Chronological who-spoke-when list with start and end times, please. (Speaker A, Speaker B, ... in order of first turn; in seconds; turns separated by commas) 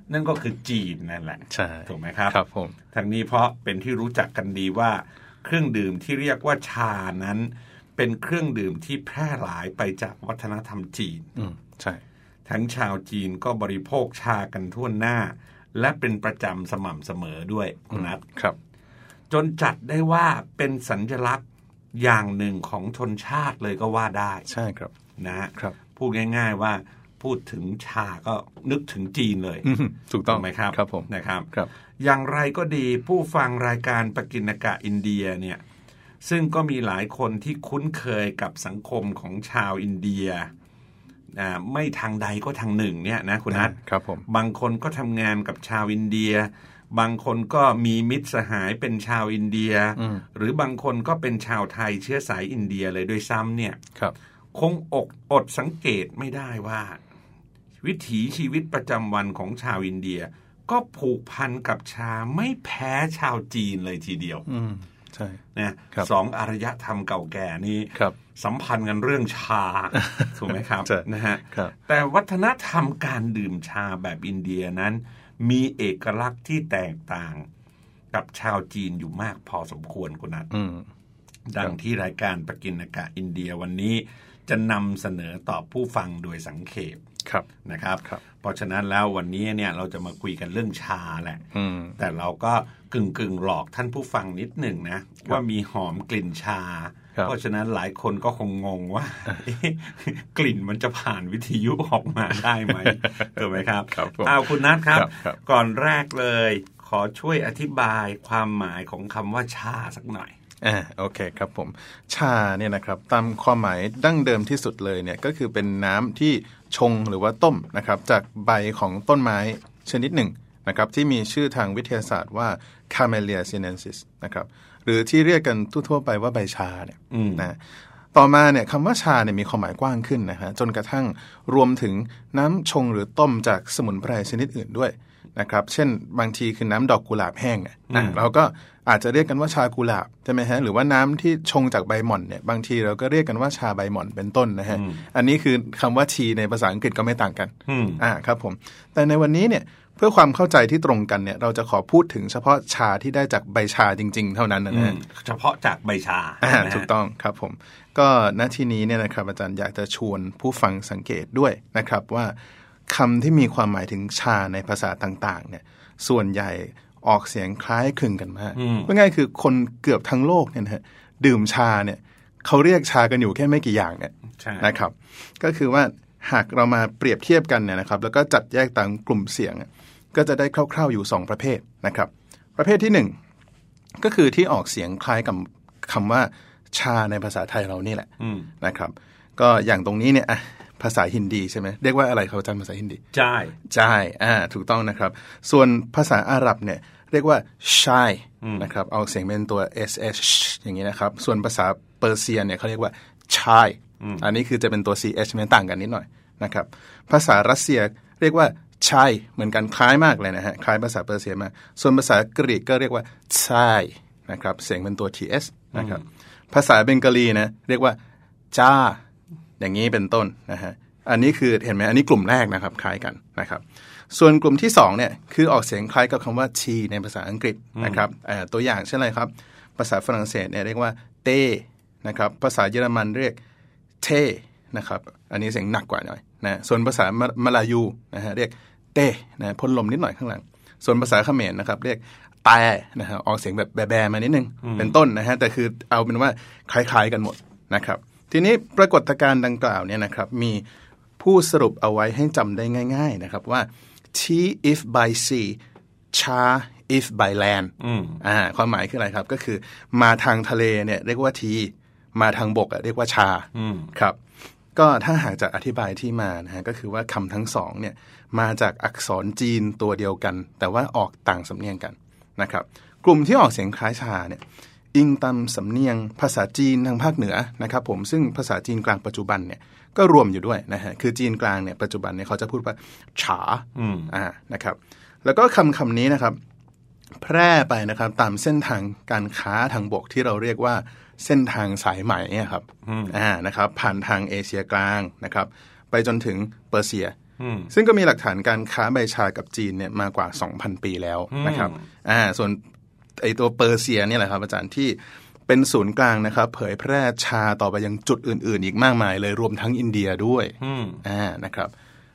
Speaker A: 0.1-2.4, Speaker B: 1.5-2.8, Speaker A: 2.9-11.3, Speaker B: 11.4-12.0, Speaker A: 12.5-18.2, Speaker B: 17.9-18.6, Speaker A: 19.3-21.4, Speaker A: 21.9-24.5, Speaker B: 24.5-24.9, Speaker A: 25.2-29.7, Speaker B: 29.6-31.7, Speaker A: 30.3-31.5, Speaker A: 32.0-35.6, Speaker A: 36.2-40.5, Speaker A: 41.3-43.8, Speaker B: 43.5-44.3, Speaker A: 44.3-53.8, Speaker B: 50.0-50.2, Speaker A: 54.5-57.0, Speaker A: 57.8-64.5, Speaker B: 64.5-65.4, Speaker A: 65.5-77.5, Speaker B: 70.0-70.3, Speaker B: 70.8-71.7, Speaker A: 78.1-80.5, Speaker B: 80.5-80.9, Speaker A: 81.5-87.0, Speaker A: 87.7-91.5, Speaker B: 91.5-92.0, Speaker A: 92.0-110.3, Speaker B: 102.7-105.4, Speaker B: 110.6-127.6, Speaker A: 127.1-127.5, Speaker B: 128.1-155.0, Speaker A: 137.9-138.2, Speaker A: 144.7-145.1, Speaker A: 147.7-148.0, Speaker A: 154.7-156.9, Speaker B: 156.4-162.3, Speaker B: 162.9-183.2, Speaker A: 168.6-168.9, Speaker A: 174.4-174.7, Speaker B: 184.0-188.1, Speaker A: 188.2-188.5, Speaker B: 188.6-193.0, Speaker A: 193.1-193.6, Speaker B: 193.7-218.0, Speaker A: 198.4-198.7, Speaker A: 204.0-204.3, Speaker A: 215.7-216.0, Speaker B: 218.5-219.0, Speaker B: 219.6-233.4, Speaker A: 227.8-228.0, Speaker B: 234.0-250.7, Speaker A: 244.6-245.0, Speaker B: 251.2-255.6, Speaker B: 256.1-264.2, Speaker A: 257.8-258.2, Speaker A: 263.5-263.9, Speaker B: 264.8-286.4, Speaker A: 283.8-284.1, Speaker B: 287.2-297.2, Speaker A: 292.9-293.2, Speaker A: 297.4-297.7, Speaker B: 297.7-302.6, Speaker A: 301.3-301.9, Speaker B: 303.2-311.7, Speaker A: 310.6-311.0